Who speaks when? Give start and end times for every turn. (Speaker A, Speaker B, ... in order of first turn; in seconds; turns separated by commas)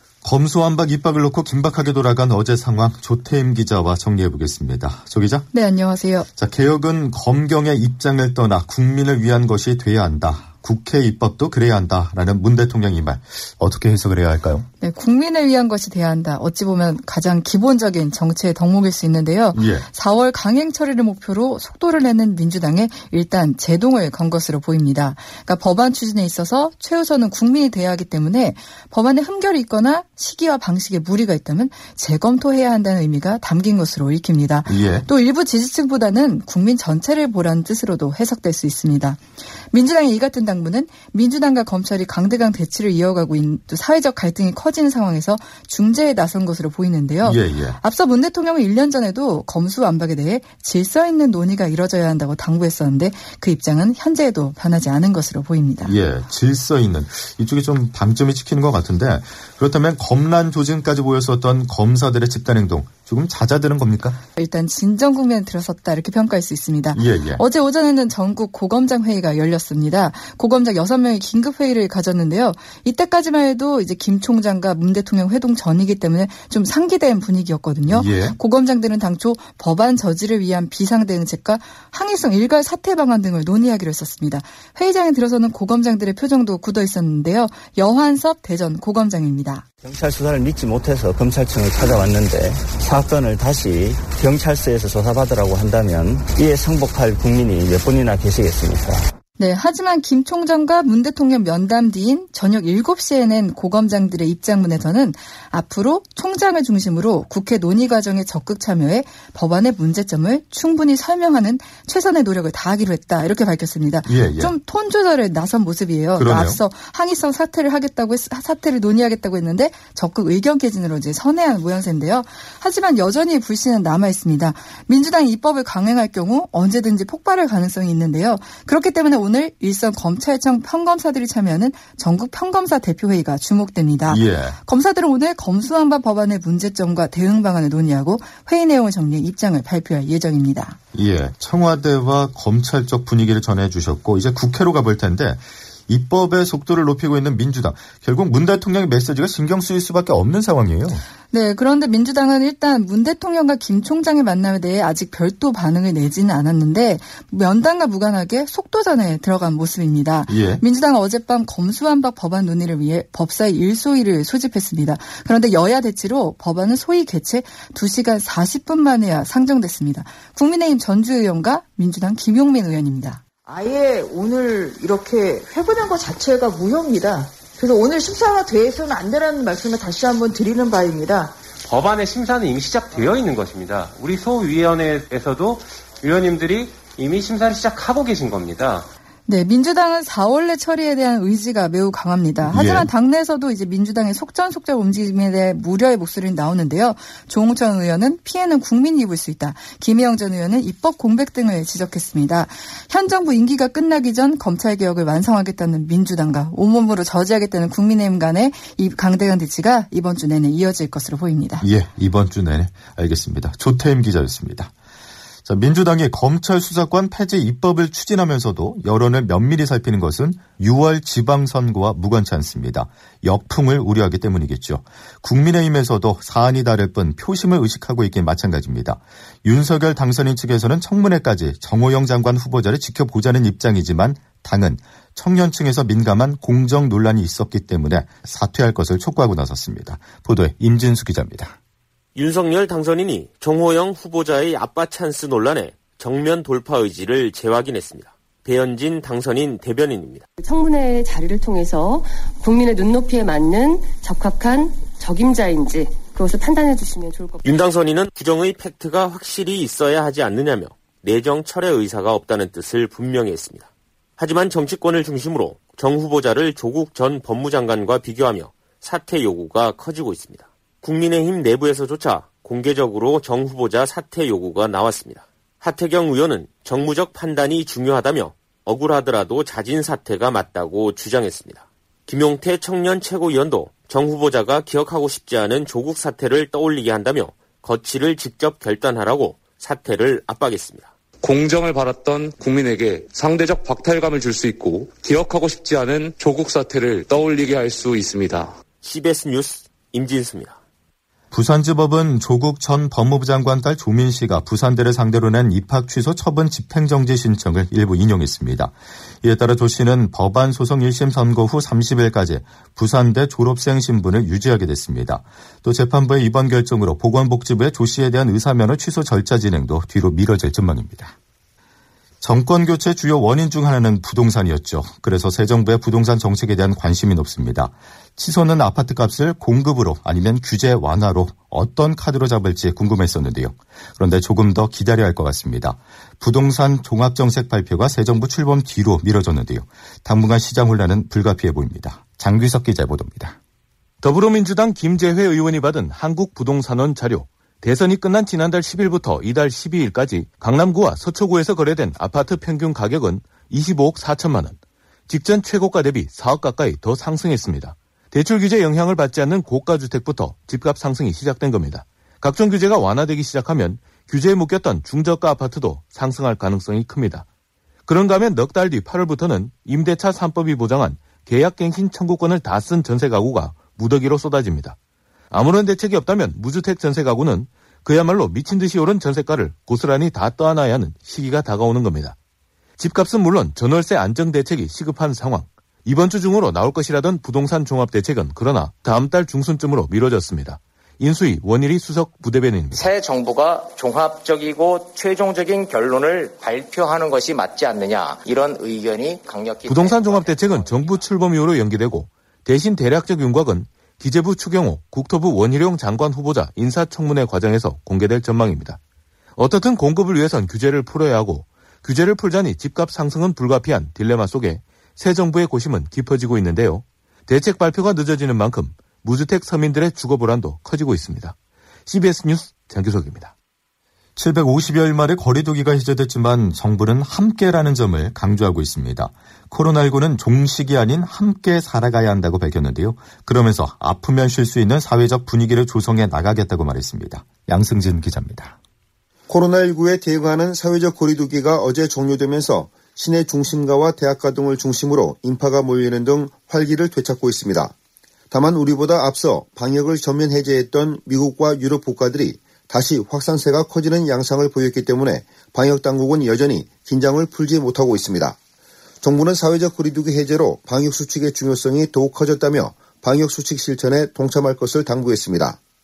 Speaker A: 0.2-5.5, Speaker B: 5.5-6.3, Speaker A: 6.4-14.7, Speaker B: 14.8-56.0, Speaker A: 19.5-19.9, Speaker A: 34.7-35.1, Speaker A: 47.2-47.8, Speaker A: 55.8-64.2, Speaker B: 64.4-89.7, Speaker A: 66.9-67.4, Speaker A: 77.9-78.4, Speaker C: 89.8-99.0, Speaker B: 99.4-140.8, Speaker A: 114.1-114.5, Speaker A: 116.2-116.6, Speaker A: 134.1-134.6, Speaker A: 140.9-151.0, Speaker B: 151.3-173.2, Speaker A: 160.3-160.6, Speaker D: 173.4-181.3, Speaker E: 181.7-188.8, Speaker B: 189.3-211.7, Speaker A: 192.4-192.9, Speaker A: 211.6-214.7, Speaker A: 215.4-241.5, Speaker F: 242.2-250.2, Speaker G: 250.4-257.4, Speaker F: 257.4-290.9, Speaker H: 291.2-298.5, Speaker F: 298.8-300.6, Speaker A: 301.3-321.1, Speaker A: 322.2-343.4, Speaker I: 344.0-354.6, Speaker I: 355.1-367.2, Speaker I: 367.9-374.8, Speaker I: 375.3-382.2, Speaker I: 382.8-392.9, Speaker J: 392.7-401.1, Speaker I: 399.7-408.8, Speaker I: 409.4-421.4, Speaker I: 421.9-423.3, Speaker A: 424.2-438.5, Speaker K: 439.3-447.7, Speaker K: 448.3-458.4, Speaker K: 459.0-465.6